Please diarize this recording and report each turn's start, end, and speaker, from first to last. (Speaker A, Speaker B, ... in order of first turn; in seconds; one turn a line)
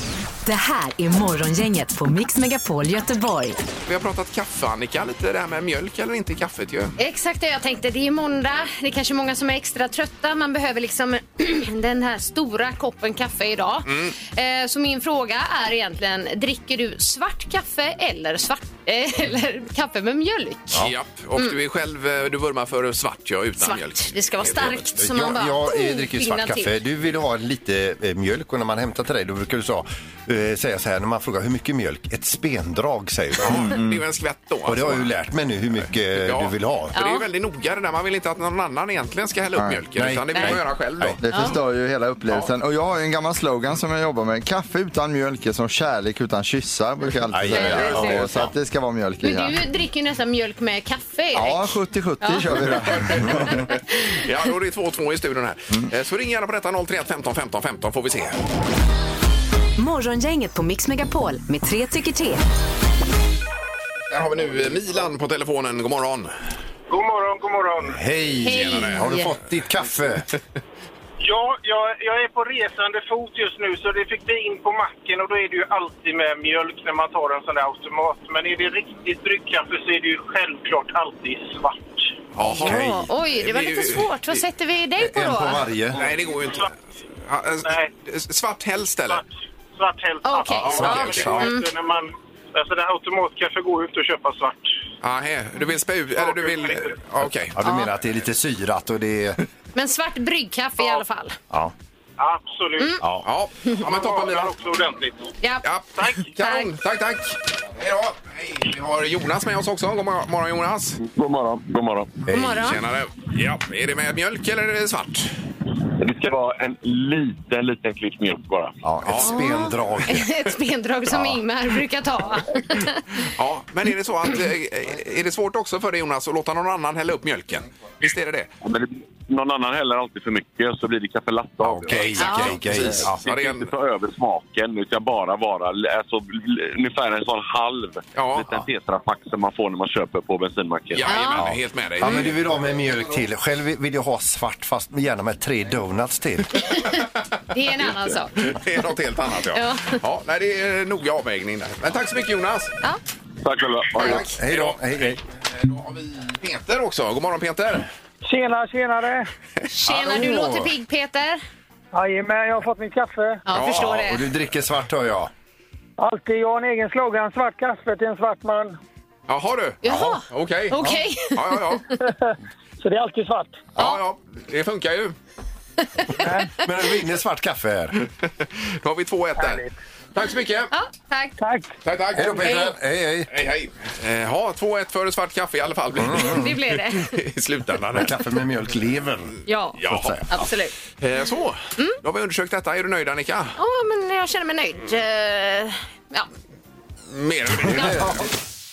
Speaker A: 0.4-3.6
Speaker B: 3.8-7.0
Speaker C: 7.0-20.8
Speaker B: 13.9-14.1
Speaker B: 20.7-24.8
Speaker C: 23.6-26.7
Speaker D: 25.0-33.8
Speaker B: 33.5-35.1
Speaker E: 33.7-34.0
Speaker D: 34.6-36.9
Speaker B: 36.1-41.2
Speaker C: 36.9-37.3
Speaker E: 39.6-39.8
Speaker D: 40.0-41.2
Speaker E: 41.2-49.6
Speaker C: 41.3-41.5
Speaker D: 47.3-48.5
Speaker C: 47.5-48.2
Speaker B: 47.6-48.3
Speaker C: 49.2-54.1
Speaker E: 51.3-53.6
Speaker B: 53.4-58.4
Speaker A: 59.8-62.4
Speaker B: 64.1-66.3
Speaker F: 66.9-68.0
Speaker D: 67.9-70.3
Speaker C: 68.4-69.3
Speaker B: 68.5-69.0
Speaker F: 71.2-82.0
Speaker B: 82.3-84.4
Speaker D: 82.4-83.0
Speaker C: 82.6-85.7
Speaker D: 85.0-86.0
Speaker B: 85.9-86.7
Speaker B: 87.3-89.2
Speaker F: 87.6-87.9
Speaker F: 89.1-94.7
Speaker C: 90.2-91.7
Speaker D: 90.6-91.5
Speaker B: 90.7-91.4
Speaker B: 95.0-97.5
Speaker D: 97.5-99.4
Speaker C: 97.6-97.9
Speaker C: 99.7-101.3
Speaker F: 102.2-103.0
Speaker D: 103.0-103.2
Speaker B: 103.2-104.5
Speaker F: 103.8-105.2
Speaker C: 105.4-105.7
Speaker B: 105.6-111.0
Speaker C: 106.3-106.7
Speaker G: 111.0-112.2
Speaker D: 112.3-112.7
Speaker C: 112.3-112.8
Speaker B: 112.6-115.3
Speaker G: 116.0-118.8
Speaker D: 118.8-120.3
Speaker B: 119.0-119.4
Speaker C: 119.3-123.2
Speaker D: 121.1-121.4
Speaker B: 123.3-128.5
Speaker G: 128.6-141.1
Speaker D: 131.6-133.2
Speaker B: 131.9-133.7
Speaker C: 132.2-132.5
Speaker B: 138.1-138.6
Speaker B: 140.9-142.4
Speaker C: 141.1-141.5
Speaker D: 141.4-146.8
Speaker C: 142.0-142.3
Speaker C: 146.6-148.3
Speaker B: 148.4-152.7
Speaker C: 149.5-150.0
Speaker G: 153.4-154.3
Speaker B: 154.0-154.8
Speaker D: 154.0-155.2
Speaker B: 155.6-157.9
Speaker H: 158.2-159.2
Speaker C: 159.7-161.4
Speaker D: 159.8-160.7
Speaker H: 161.9-163.4
Speaker C: 163.4-164.3
Speaker B: 163.5-164.0
Speaker D: 163.6-165.3
Speaker H: 166.0-168.8
Speaker B: 169.3-171.8
Speaker C: 169.8-171.6
Speaker D: 169.9-170.2
Speaker H: 172.1-173.6
Speaker B: 173.8-175.1
Speaker C: 175.8-176.2
Speaker H: 176.2-176.5
Speaker D: 176.6-178.0
Speaker B: 178.2-180.7
Speaker C: 180.7-181.4
Speaker H: 181.4-181.7
Speaker B: 181.8-182.7
Speaker D: 182.1-183.3
Speaker B: 183.3-188.2
Speaker D: 185.9-186.5
Speaker C: 186.1-187.2
Speaker D: 187.9-190.3
Speaker C: 189.4-190.7
Speaker B: 189.8-190.2
Speaker B: 191.0-193.6
Speaker C: 193.6-196.3
Speaker B: 197.1-198.2
Speaker D: 197.6-198.3
Speaker C: 197.7-198.2